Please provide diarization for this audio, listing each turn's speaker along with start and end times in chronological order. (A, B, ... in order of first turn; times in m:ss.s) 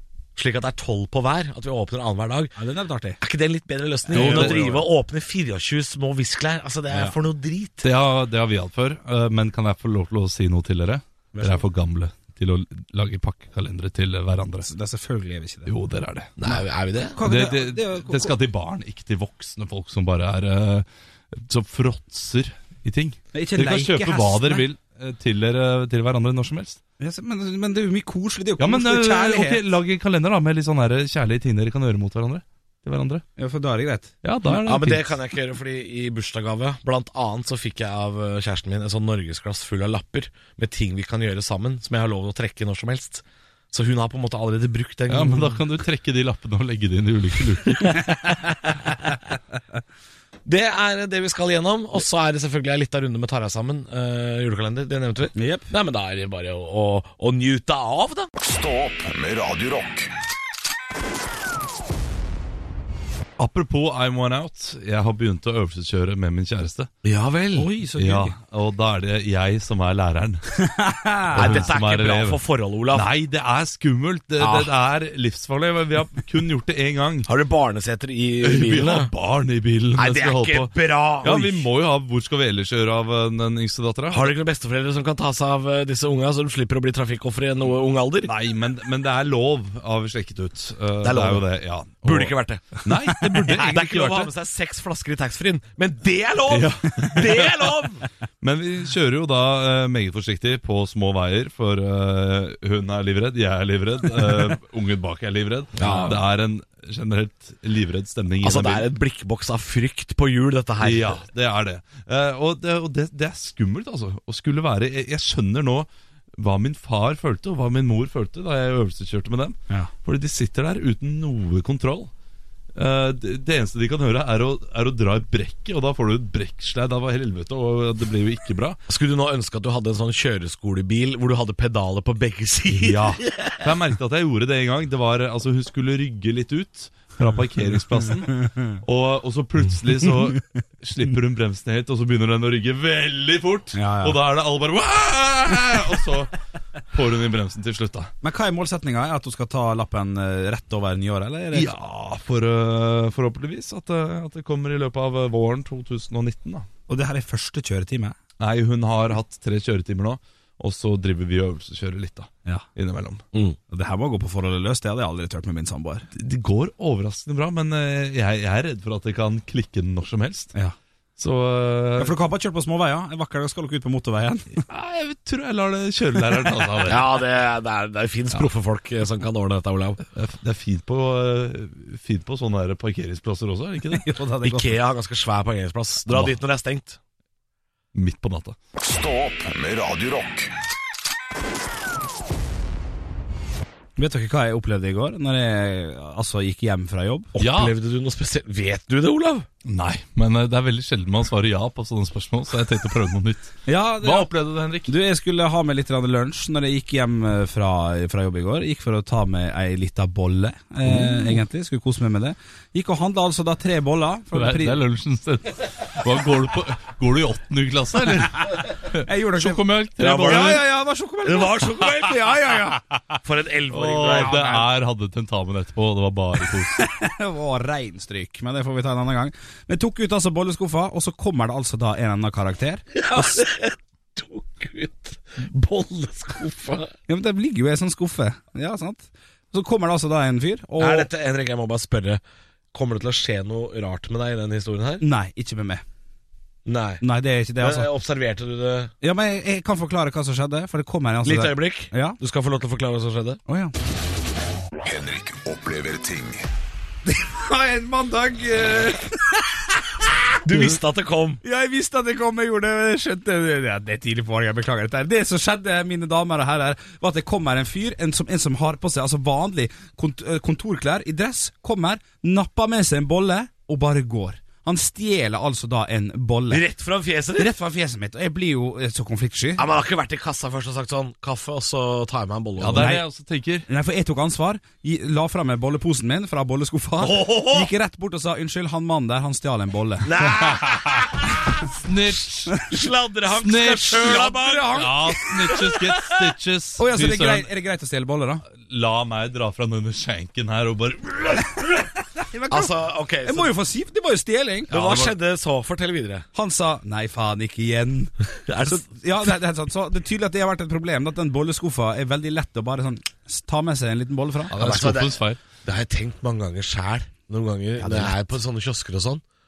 0:00.4-0:02.6 A
0:02.6-0:03.2 B
0:03.2-0:07.9 A
0:04.1-0:04.9 B
0:04.1-0:04.6 C
0:07.8-0:14.7 C
0:11.3-0:11.7 B
0:14.6-0:15.7 B
0:15.7-0:16.3 C
0:16.4-0:17.2 A
0:17.1-0:18.3 B
0:17.2-0:26.8 C
0:23.3-0:24.6 B
0:27.0-0:29.6 B
0:28.6-0:33.2 C
0:33.4-0:34.1 B
0:34.2-0:35.1 C
0:34.6-0:45.6 A
0:45.1-0:48.0 C
0:50.4-0:58.3 A
0:55.4-0:55.7 B
0:58.4-1:00.2 D
1:03.4-1:06.9 C
1:07.0-1:07.7 A
1:07.6-1:08.4 B
1:08.0-1:10.4 C
1:10.6-1:11.6 B
1:11.3-1:12.4 C
1:11.4-1:13.1 A
1:12.9-1:17.3 C
1:14.4-1:14.7 A
1:17.3-1:19.1 A
1:18.4-1:24.3 C
1:20.0-1:21.7 A
1:24.1-1:28.3 A
1:28.2-1:34.3 C
1:31.0-1:31.5 A
1:32.0-1:32.8 A
1:33.4-1:38.1 A
1:36.5-1:37.5 C
1:38.4-1:48.9 C
1:45.8-1:46.2 A
1:45.8-1:46.2 B
1:48.4-1:51.2 A
1:50.8-2:02.1 C
2:02.8-2:08.8 C
2:08.9-2:13.6 A
2:12.7-2:26.3 C
2:23.7-2:24.2 B
2:26.9-2:28.1 C
2:28.2-2:31.7 B
2:31.5-2:36.7 C
2:36.9-2:38.2 B
2:38.4-2:43.2 C
2:43.7-2:46.1 B
2:46.2-2:50.6 C
2:51.2-2:52.2 C
2:52.0-2:54.6 B
2:54.7-2:57.1 C
2:56.9-3:00.0 A
3:00.1-3:04.1 C
3:03.9-3:04.8 B
3:04.4-3:07.0 A
3:07.9-3:08.6 C
3:08.8-3:10.6 D
3:14.0-3:17.3 B
3:17.4-3:19.5 A
3:17.4-3:17.7 C
3:19.6-3:24.9 C
3:23.7-3:24.3 B
3:24.8-3:34.8 B
3:30.9-3:31.4 C
3:34.3-3:40.6 C
3:39.0-3:39.6 B
3:40.0-3:40.6 A
3:40.2-3:43.0 B
3:41.2-3:44.6 A
3:43.7-3:46.8 C
3:46.7-3:53.4 B
3:52.9-3:56.9 A
3:57.1-4:01.1 B
4:00.8-4:02.2 A
4:02.7-4:05.0 A
4:05.0-4:05.8 B
4:06.6-4:07.0 A
4:07.0-4:07.9 B
4:07.6-4:08.9 A
4:09.0-4:12.2 B
4:11.2-4:13.4 A
4:13.5-4:13.7 B
4:14.8-4:16.4 D
4:17.1-4:19.6 B
4:20.4-4:21.4 A
4:21.4-4:36.6 B
4:36.5-4:37.5 A
4:37.4-4:39.6 B
4:39.6-4:42.9 A
4:42.6-4:43.7 C
4:42.8-4:43.0 B
4:43.7-4:50.2 B
4:47.0-4:47.7 A
4:50.0-4:51.2 A
4:50.5-4:51.1 C
4:51.8-4:52.6 C
4:52.7-4:56.0 A
4:53.4-4:57.5 C
4:53.9-4:55.6 B
4:56.8-4:58.4 B
4:58.6-5:01.9 C
5:02.2-5:02.7 B
5:02.5-5:03.5 A
5:03.2-5:04.7 B
5:04.7-5:06.3 A
5:04.7-5:05.2 C
5:06.4-5:14.6 B
5:08.5-5:08.9 A
5:14.5-5:15.4 C
5:14.6-5:19.2 A
5:17.8-5:18.1 B